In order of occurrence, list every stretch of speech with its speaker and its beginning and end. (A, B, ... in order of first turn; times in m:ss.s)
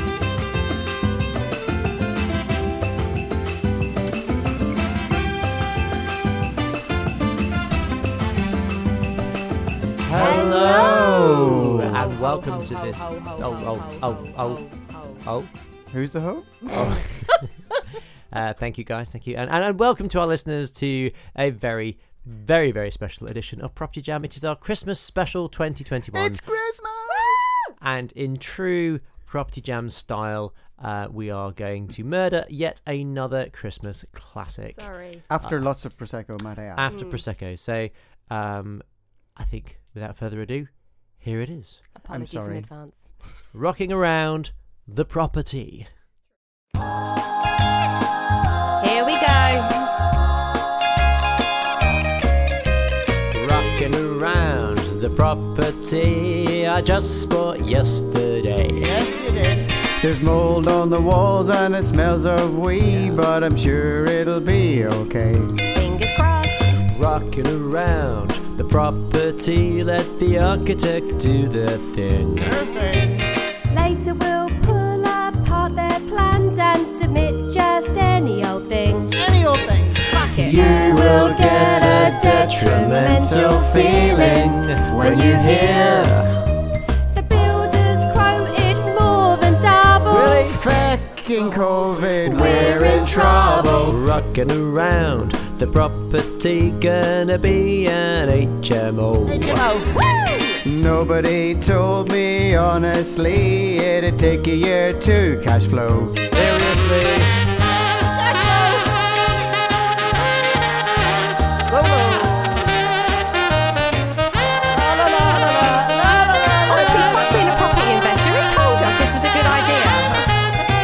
0:10.0-0:14.6 A
0:10.1-0:15.2 B
0:11.1-0:11.9 C
0:15.2-0:15.5 A
0:15.9-0:17.1 C
0:16.7-0:17.3 A
0:16.8-0:17.4 B
0:18.3-0:26.4 A
0:26.1-0:27.5 C
0:27.2-0:27.7 B
0:27.8-0:35.7 A
0:34.7-0:35.2 B
0:35.3-0:36.9 C
0:36.7-0:41.8 A
0:36.9-0:37.2 B
0:41.9-0:43.2 B
0:42.0-0:42.7 C
0:43.5-0:45.9 A
0:48.8-0:49.9 B
0:53.3-0:58.9 A
0:58.8-1:05.6 C
1:02.9-1:03.2 A
1:05.7-1:06.8 B
1:06.8-1:12.6 A
1:12.4-1:13.3 C
1:13.7-1:19.2 B
1:19.1-1:21.6 C
1:20.1-1:26.2 B
1:20.4-1:26.3 A
1:27.1-1:30.5 B
1:30.1-1:30.7 A
1:30.4-1:33.9 C
1:32.2-1:39.7 A
1:32.2-1:33.9 B
1:39.3-1:40.0 C
1:40.0-1:40.5 B
1:40.6-1:46.2 C
1:46.3-1:47.3 A
1:51.5-1:52.7 A
1:54.7-1:57.5 A
1:56.7-2:00.2 B